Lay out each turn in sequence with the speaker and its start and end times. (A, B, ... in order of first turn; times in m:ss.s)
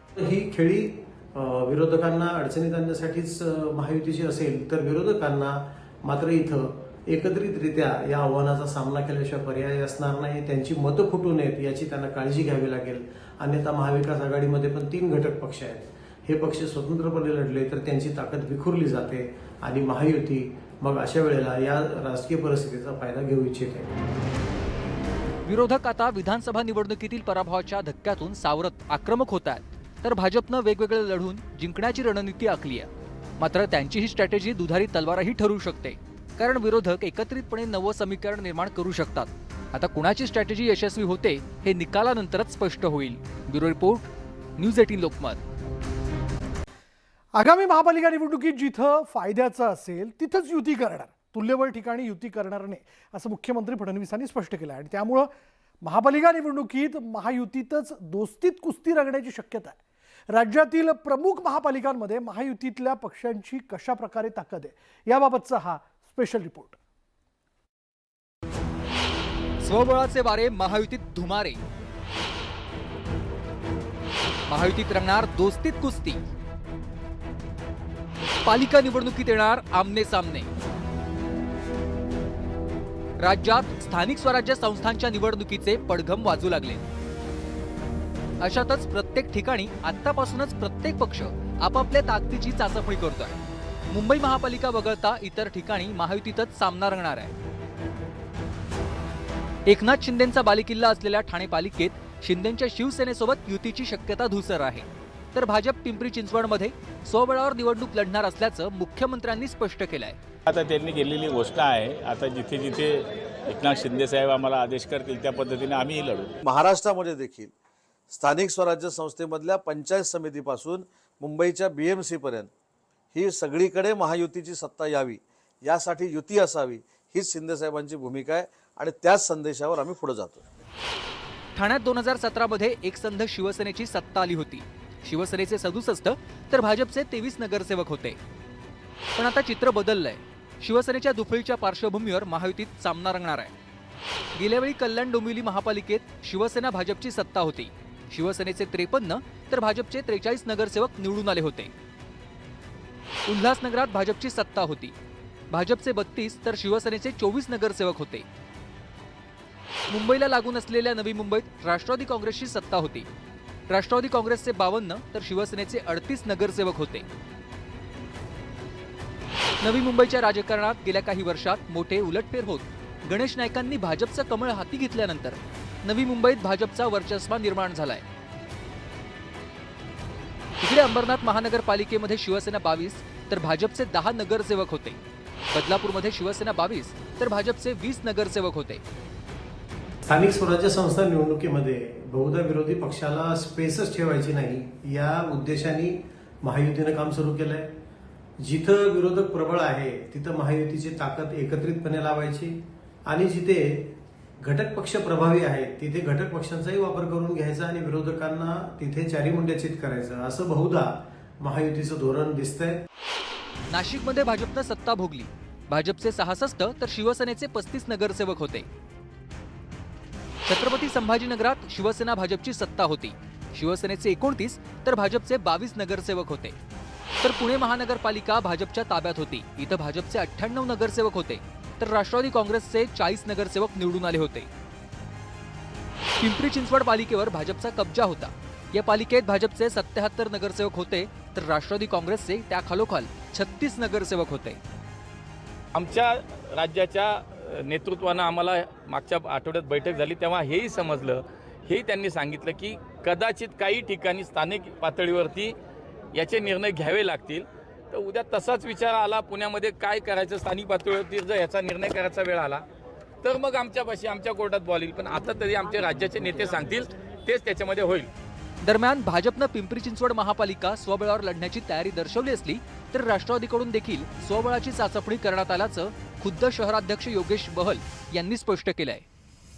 0:00.2-0:23.9 A
0:25.4-0:45.4 B
0:47.4-0:55.3 C
0:55.8-0:59.8 C
1:00.3-1:06.8 C
1:09.6-1:11.6 B
1:14.5-1:16.2 B
1:18.4-1:20.5 B
1:23.2-1:26.8 B
1:28.4-1:33.4 B
1:33.9-1:37.4 B
1:39.7-1:50.2 B
1:50.5-1:56.3 D
1:56.4-1:57.5 E
1:58.1-2:02.5 E
2:03.1-2:10.4 E
2:11.6-2:18.2 B
2:19.2-2:23.5 B
2:24.4-2:31.7 B
2:33.3-2:35.0 B
2:35.5-2:38.3 B
2:39.9-2:43.1 B
2:43.7-2:47.1 B
2:49.6-2:58.0 B
3:00.6-3:05.0 B
3:05.5-3:08.8 B
3:10.1-3:17.7 A
3:18.4-3:32.8 A
3:33.7-3:38.7 B
3:40.5-3:46.6 B
3:47.2-3:54.5 B
3:56.2-4:04.6 B
4:05.7-4:15.6 D
4:16.1-4:22.6 D
4:23.2-4:28.1 D
4:28.6-4:39.0 B